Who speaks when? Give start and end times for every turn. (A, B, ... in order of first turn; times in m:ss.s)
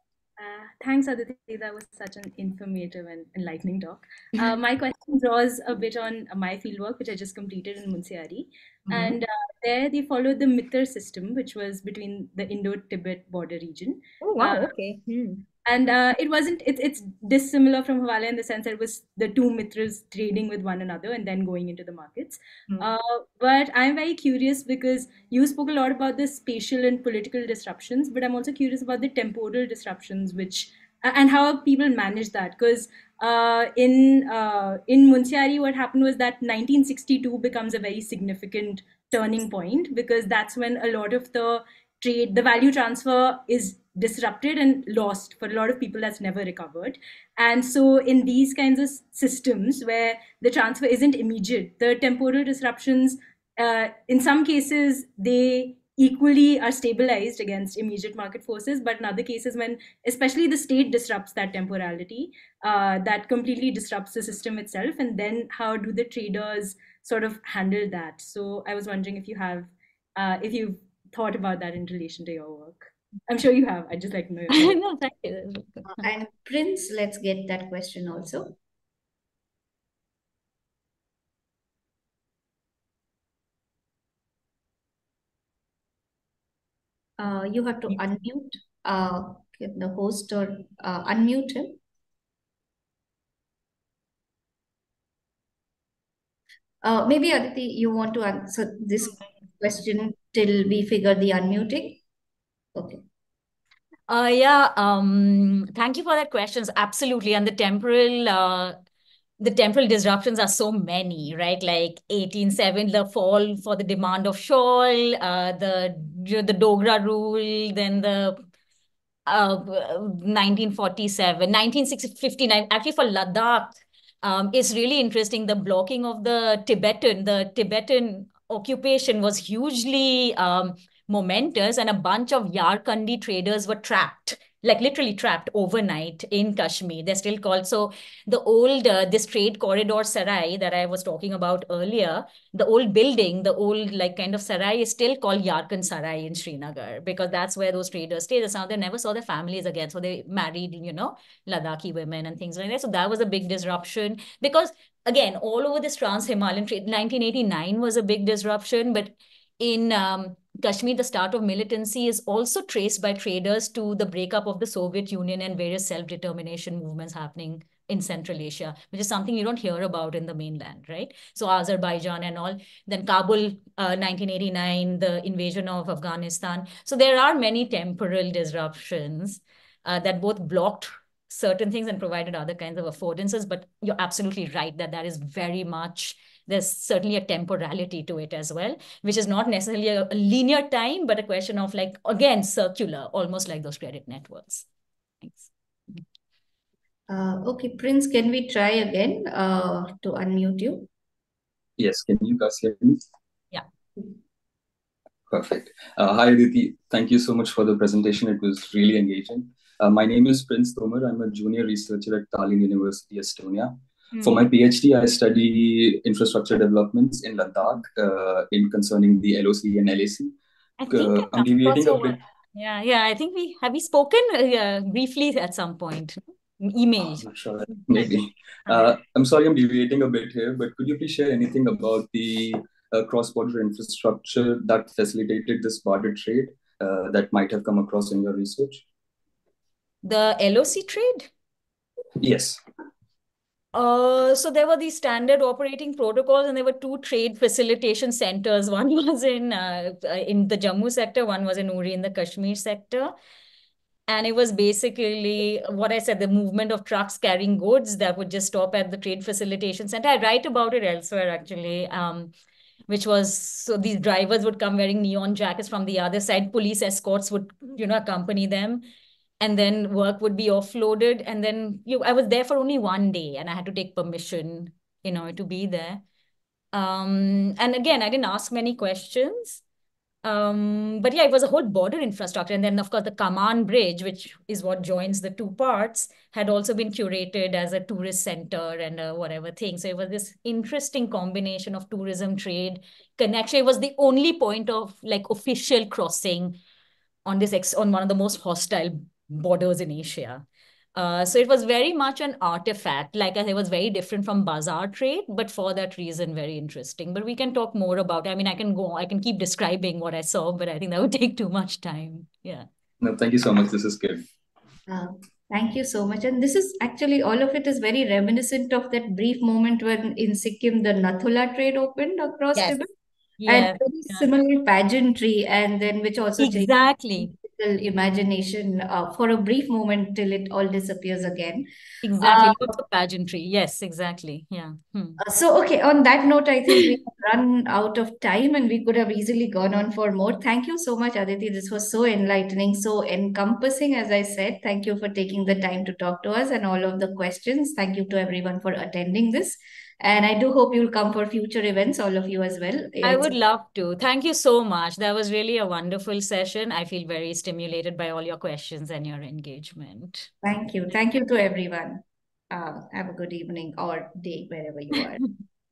0:00.4-0:14.7 A
0:08.9-0:09.2 B
0:14.2-0:15.4 B
0:15.6-1:14.8 A
1:14.5-1:16.0 B
1:16.0-1:18.5 C
1:27.2-1:31.8 C
1:36.8-1:42.0 C
1:42.7-1:43.0 C
1:44.1-1:48.8 B
1:49.4-1:58.4 B
1:59.3-3:14.7 B
3:15.2-3:16.0 B
3:17.1-3:20.9 C
3:21.8-3:23.0 D
3:25.3-3:40.4 D
3:34.1-3:34.4 B
3:40.8-3:47.3 B
3:40.9-3:42.2 D
3:47.2-3:58.8 D
3:48.7-3:49.0 B
4:00.0-4:01.3 B
4:02.2-4:02.6 D
4:03.7-4:13.1 B
4:14.1-4:22.3 B
4:22.9-4:28.8 B
4:29.4-4:36.0 B
4:36.7-4:39.6 B
4:40.2-4:56.6 B
4:57.3-5:00.4 B
5:01.0-5:12.7 B
5:13.0-5:14.2 D
5:14.9-5:22.9 C
5:23.4-5:24.3 B
5:23.5-5:31.7 C
5:26.4-5:27.3 B
5:32.0-5:35.2 B
5:32.2-5:32.7 C
5:35.2-5:53.3 C
5:53.0-6:00.3 B
6:00.4-6:05.2 C